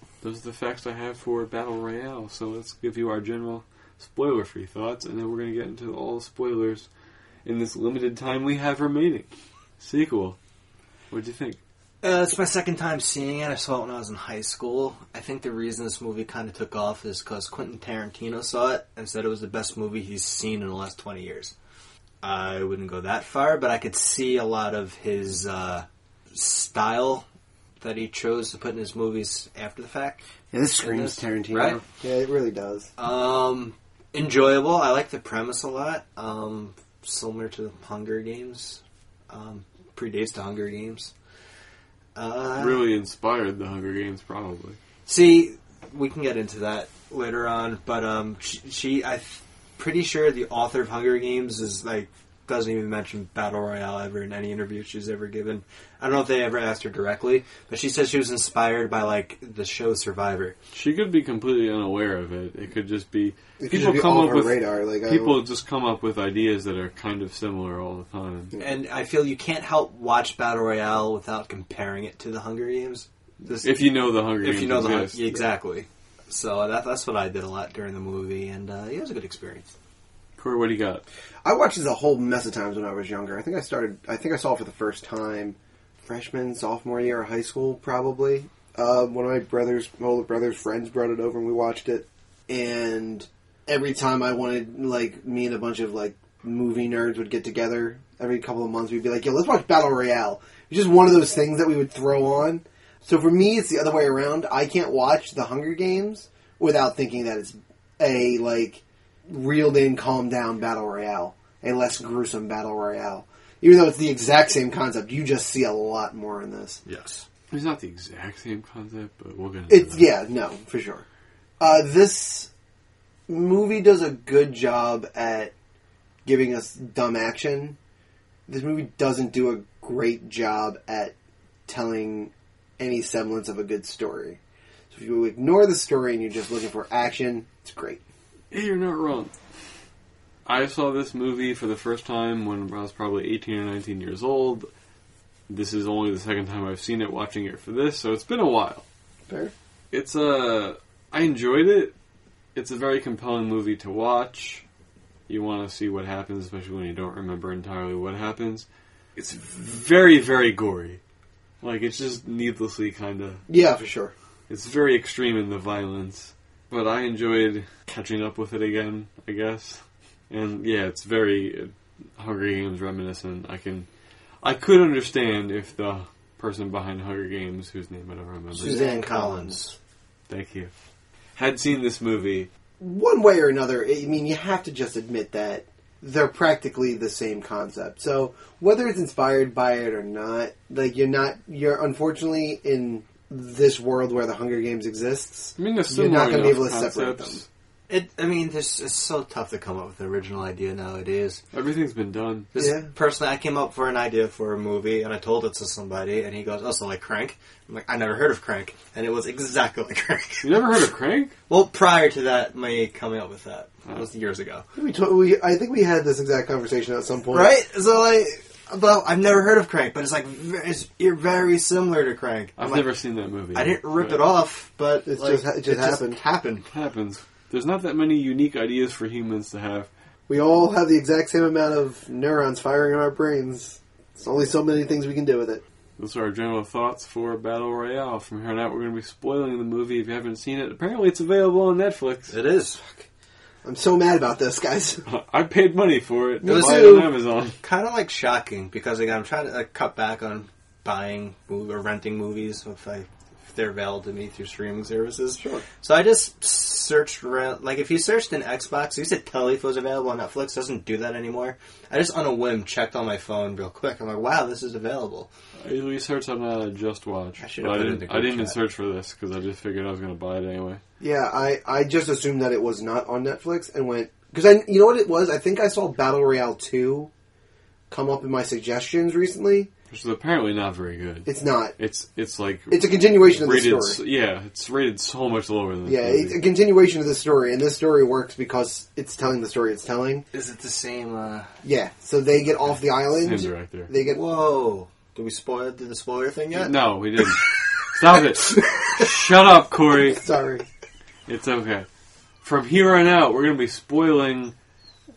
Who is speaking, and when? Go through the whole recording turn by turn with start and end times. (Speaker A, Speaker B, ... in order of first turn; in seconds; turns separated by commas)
Speaker A: 0.2-6.9, Speaker A: 7.4-10.4, Speaker A: 11.1-11.6, Speaker B: 12.0-21.5, Speaker B: 22.2-27.2, Speaker B: 27.8-30.2, Speaker C: 30.5-32.9, Speaker B: 30.8-31.8, Speaker B: 33.0-41.1, Speaker B: 42.1-42.8, Speaker A: 42.6-44.8, Speaker B: 45.1-60.5, Speaker A: 60.7-68.5, Speaker C: 63.6-65.4, Speaker B: 68.6-73.8, Speaker A: 73.6-75.3, Speaker B: 74.4-79.7, Speaker A: 80.4-81.0, Speaker C: 81.4-116.8, Speaker B: 116.8-117.2, Speaker A: 117.5-120.1, Speaker C: 119.7-121.0, Speaker C: 121.6-122.5, Speaker C: 123.3-125.5, Speaker C: 126.2-127.8, Speaker C: 128.5-131.1, Speaker C: 131.7-134.4, Speaker C: 134.9-138.0, Speaker A: 138.5-139.3, Speaker A: 140.4-144.7, Speaker A: 145.5-148.8, Speaker A: 149.9-151.9, Speaker A: 152.5-154.6, Speaker A: 155.3-161.0, Speaker A: 161.6-163.4, Speaker C: 163.5-164.1, Speaker A: 164.5-173.9, Speaker A: 174.4-178.8, Speaker B: 178.6-179.8, Speaker C: 178.6-179.6, Speaker A: 180.3-180.7, Speaker A: 181.3-182.5, Speaker C: 182.8-197.4, Speaker A: 195.6-197.4, Speaker B: 197.9-201.4, Speaker A: 201.5-202.5, Speaker B: 202.5-210.5, Speaker C: 202.6-202.9, Speaker A: 210.4-211.3, Speaker B: 211.5-214.6, Speaker C: 214.7-217.5, Speaker B: 217.3-222.9, Speaker A: 222.6-224.2, Speaker B: 223.5-226.7, Speaker C: 225.1-226.2, Speaker A: 226.7-229.9, Speaker C: 230.3-235.6, Speaker A: 236.0-242.3, Speaker B: 242.3-242.8, Speaker C: 243.6-245.0, Speaker A: 245.1-247.6, Speaker C: 246.4-247.1, Speaker B: 246.4-265.3, Speaker C: 255.4-255.6, Speaker A: 265.6-270.8, Speaker B: 267.4-268.6, Speaker C: 271.0-277.1, Speaker C: 277.9-279.7, Speaker A: 279.9-286.4, Speaker C: 281.2-281.7, Speaker C: 282.7-284.0, Speaker C: 285.8-290.2, Speaker B: 290.3-291.5, Speaker C: 291.6-294.2, Speaker A: 293.1-293.9, Speaker B: 294.0-296.7, Speaker A: 296.5-300.2, Speaker C: 300.1-300.6, Speaker A: 301.3-301.9, Speaker A: 302.4-304.5